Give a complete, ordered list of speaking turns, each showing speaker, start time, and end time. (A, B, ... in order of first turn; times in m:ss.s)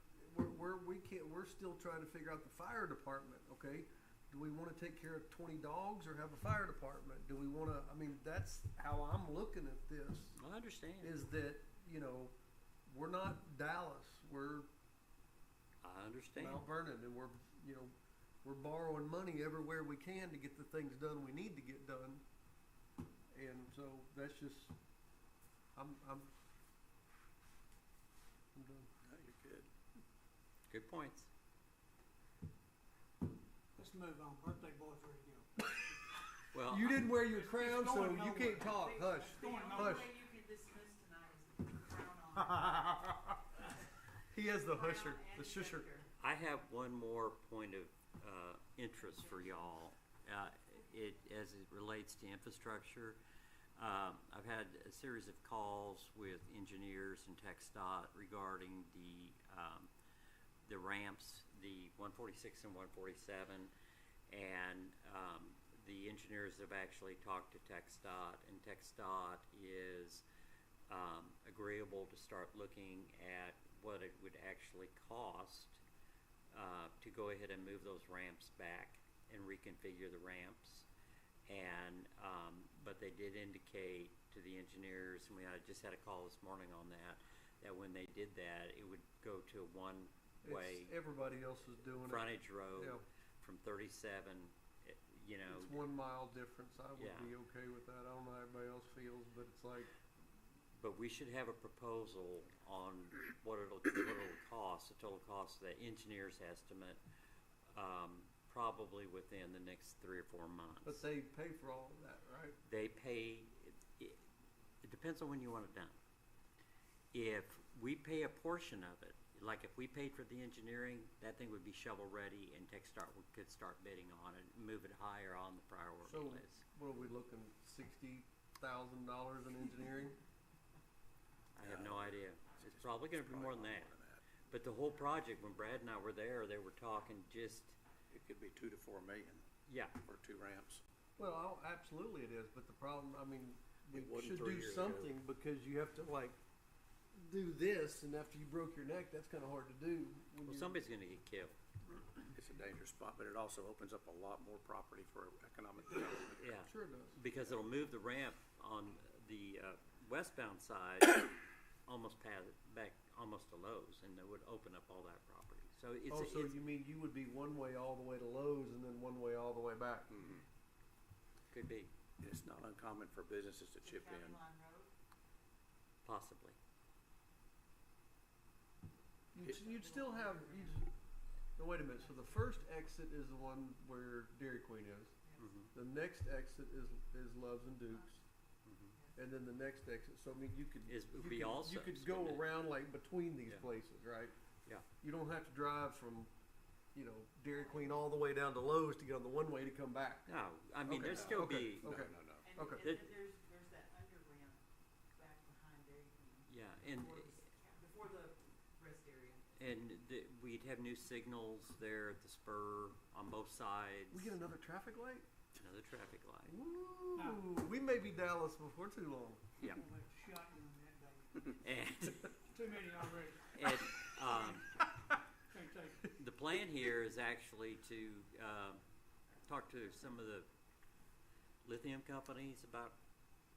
0:00.2-0:10.4 A
0:10.4-0:11.1 B
0:11.0-0:12.3 A
0:12.9-0:14.7 A
0:15.8-0:16.6 B
0:16.4-0:17.9 A
0:18.4-0:22.2 A
0:23.3-0:24.8 A
0:25.8-0:26.3 A
0:28.6-0:28.9 A
0:29.0-0:29.7 C
0:30.7-0:31.3 B
0:33.8-0:35.5 D
0:36.5-0:37.1 B
0:36.7-0:40.1 A
0:37.3-0:38.7 D
0:38.7-0:43.0 E
0:39.4-0:39.9 D
0:42.5-0:43.4 A
0:44.3-0:45.9 A
0:44.7-0:46.1 E
0:46.2-0:53.2 B
0:53.8-0:59.9 B
1:00.6-1:03.7 B
1:04.3-1:10.2 B
1:10.9-1:15.8 B
1:16.5-1:20.9 B
1:21.5-1:31.0 B
1:30.4-1:33.0 A
1:32.0-1:35.8 B
1:35.5-1:39.9 A
1:37.0-1:37.3 B
1:40.8-1:47.0 B
1:47.7-1:51.0 B
1:50.8-1:52.6 A
1:52.6-1:54.2 B
1:54.8-1:56.0 B
1:57.1-2:06.6 B
2:06.0-2:10.2 A
2:11.6-2:13.9 B
2:11.6-2:14.2 C
2:14.5-2:17.8 B
2:18.1-2:19.4 C
2:19.7-2:20.0 B
2:20.0-2:20.8 C
2:21.2-2:26.4 A
2:23.9-2:25.1 C
2:27.1-2:30.8 A
2:30.4-2:32.0 B
2:32.2-2:36.6 C
2:36.4-2:46.6 B
2:36.6-2:37.2 A
2:46.1-2:50.2 A
2:50.1-2:50.4 C
2:51.5-2:51.9 B
2:52.2-2:54.4 C
2:53.8-2:54.9 E
2:56.0-2:56.6 B
2:59.3-3:00.9 A
2:59.5-3:00.9 E
3:01.6-3:05.1 A
3:02.0-3:02.6 E
3:05.4-3:05.7 B
3:05.7-3:08.2 A
3:08.6-3:08.9 B
3:09.2-3:14.3 A
3:10.9-3:12.6 B
3:15.0-3:16.3 A
3:16.9-3:20.3 A
3:17.6-3:18.0 E
3:20.3-3:21.9 B
3:20.9-3:22.5 C
3:20.9-3:22.8 A
3:22.4-3:24.6 E
3:22.7-3:23.1 B
3:25.2-3:29.4 E
3:26.5-3:27.4 B
3:29.6-3:34.4 B
3:34.1-3:35.3 A
3:35.6-3:36.6 B
3:36.5-3:39.6 A
3:37.2-3:37.4 D
3:39.6-3:41.6 D
3:41.6-3:42.3 B
3:42.4-3:43.6 D
3:43.6-3:44.7 B
3:45.5-3:46.1 D
3:46.2-3:48.8 B
3:49.5-3:50.5 B
3:51.6-3:53.0 B